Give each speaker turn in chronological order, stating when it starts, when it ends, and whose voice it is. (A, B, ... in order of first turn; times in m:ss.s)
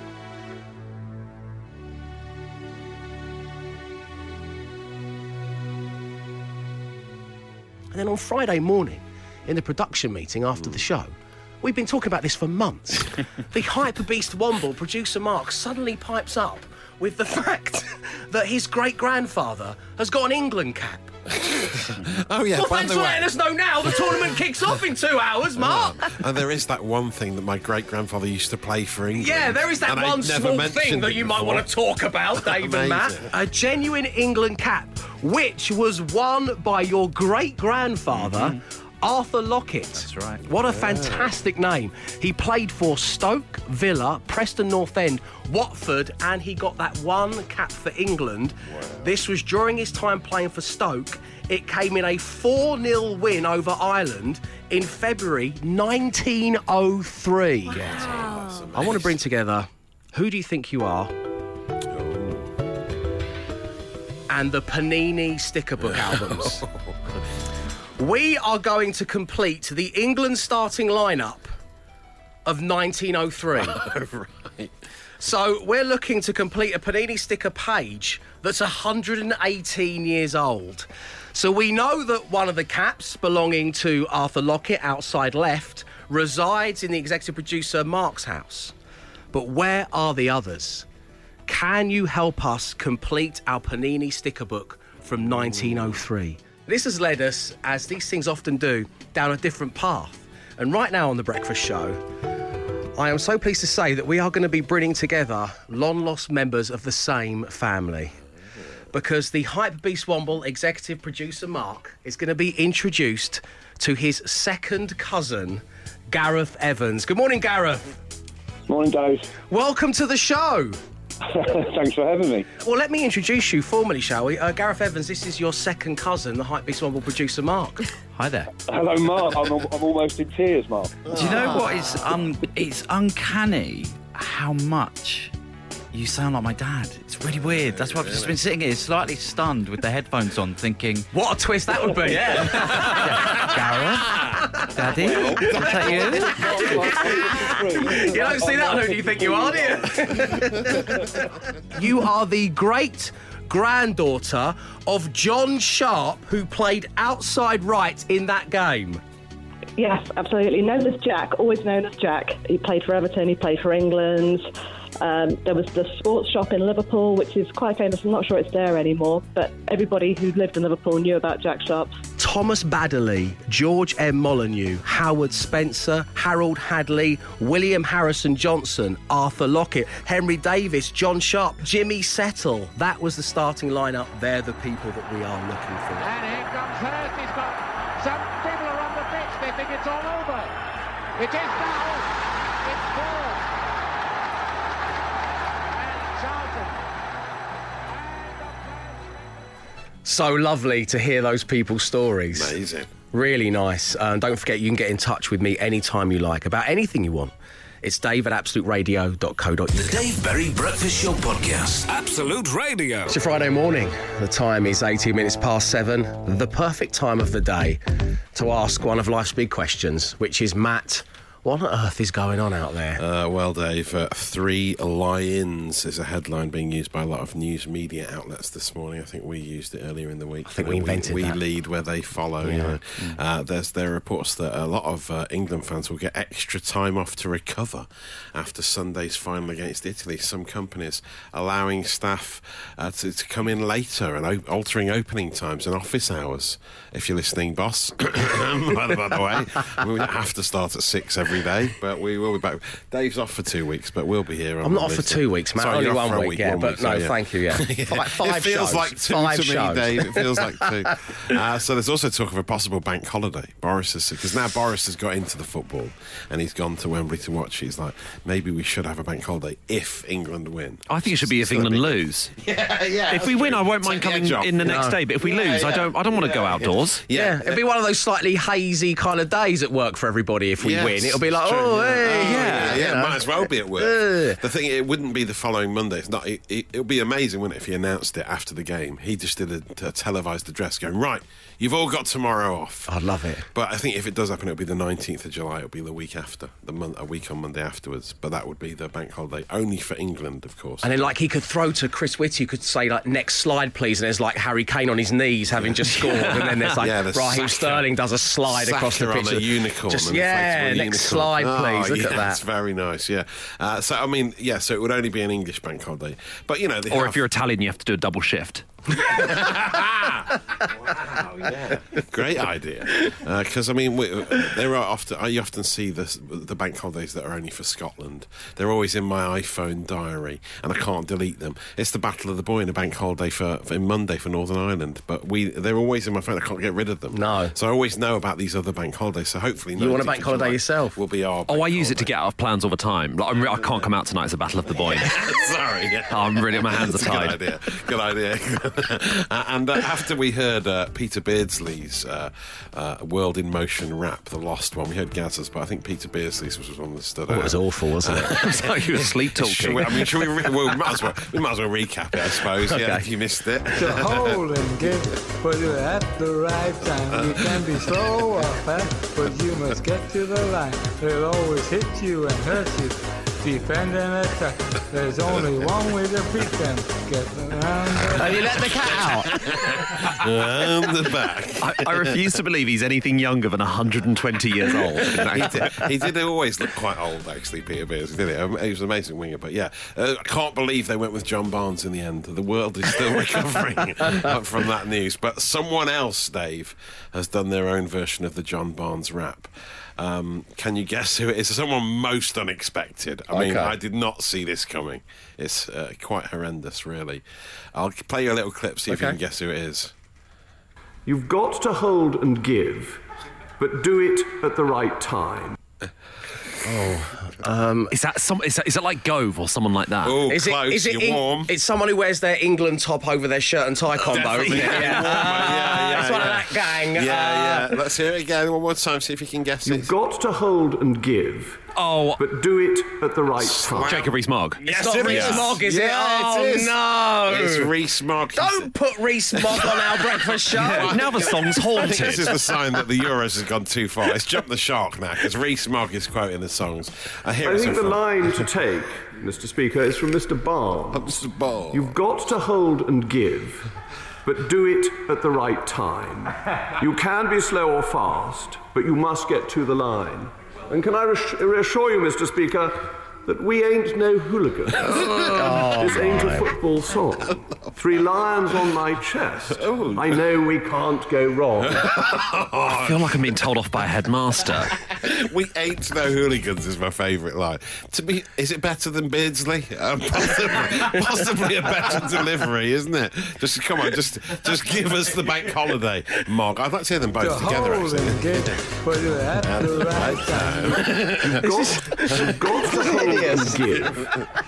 0:07.9-0:21.1 A
0:21.4-0:23.3 B
0:22.5-0:26.2 A
0:23.9-0:24.2 B
0:25.6-0:31.7 B
0:29.2-1:01.1 A
0:32.3-0:33.3 B
0:40.0-0:40.5 C
0:40.6-0:41.3 B
0:48.7-0:49.1 B
0:57.7-0:59.2 B
1:01.9-1:02.5 B
1:04.3-1:06.6 A
1:05.8-1:07.2 B
1:08.0-1:11.5 A
1:12.5-1:13.8 A
1:13.6-1:14.7 B
1:15.2-1:28.7 A
1:29.3-1:30.9 A
1:31.5-1:42.0 A
1:43.0-1:48.2 A
1:48.9-1:57.9 A
1:58.7-1:59.3 D
1:59.5-2:00.8 A
2:01.3-2:02.5 D
2:02.6-2:07.9 A
2:08.2-2:08.5 C
2:08.7-2:11.5 D
2:11.1-2:11.8 B
2:11.1-2:15.3 C
2:15.9-2:21.1 C
2:17.2-2:18.5 B
2:21.1-2:39.0 A
2:22.5-2:24.2 C
2:24.7-2:26.4 C
2:26.0-2:30.1 D
2:39.8-2:44.5 E
2:45.0-2:52.0 E
2:52.2-3:06.1 A
3:06.0-3:10.5 F
3:11.2-3:12.1 F
3:12.6-3:13.5 F
3:15.8-3:16.8 F
3:17.9-3:19.2 F
3:20.1-3:22.6 A
3:22.3-3:22.9 B
3:23.1-3:30.0 A
3:29.7-3:33.1 G
3:33.1-3:37.8 A
3:38.3-3:43.0 A
3:43.0-4:37.6 B
3:50.5-3:51.4 A
4:14.6-4:20.9 A
4:30.9-4:32.3 H
4:33.1-4:37.0 H
4:34.6-4:35.0 A
4:37.1-4:44.4 A
4:40.6-4:53.0 B
4:42.1-4:42.8 H
4:52.9-4:53.5 A
4:53.5-5:01.1 B
5:00.8-5:12.4 A
5:05.5-5:07.9 B
5:08.4-5:17.3 B
5:16.9-5:18.6 H
5:19.0-5:42.1 B
5:37.1-5:37.6 A
5:39.8-5:41.0 A
5:41.5-5:45.2 H
5:43.3-5:43.9 B
5:44.7-6:04.4 B
5:46.1-5:47.4 H
5:57.3-5:58.4 A
5:58.3-6:00.1 H
6:02.3-6:03.1 A
6:03.8-6:18.7 I
6:07.1-6:07.6 B
6:18.2-6:19.3 A
6:18.7-6:22.3 B
6:21.6-6:25.8 H
6:24.9-6:49.9 B
6:43.3-6:43.8 A
6:48.9-6:49.2 A
6:51.1-6:53.0 J
6:53.6-6:55.6 J
6:56.6-6:57.9 A
6:57.9-7:00.2 H
7:00.0-7:01.5 B
7:00.3-7:07.8 A
7:04.0-7:09.9 B
7:04.7-7:05.9 H
7:09.7-7:11.6 J
7:11.7-7:12.2 H
7:12.2-7:14.0 J
7:13.4-7:14.0 B
7:13.8-7:14.1 A
7:13.9-7:15.4 H
7:14.6-7:17.7 A
7:14.6-7:18.7 B
7:18.4-7:22.1 A
7:19.3-7:28.5 B
7:20.7-7:22.3 H
7:27.4-7:33.7 J
7:30.9-7:32.0 B
7:34.2-7:51.9 J
7:45.4-7:46.5 A
7:49.5-7:50.2 B
7:51.8-7:53.3 B
7:52.7-7:54.8 H
7:54.8-8:08.8 B
8:07.2-8:11.1 I
8:09.4-8:12.4 B
8:11.4-8:14.0 J
8:11.4-8:13.9 A
8:13.9-8:14.2 B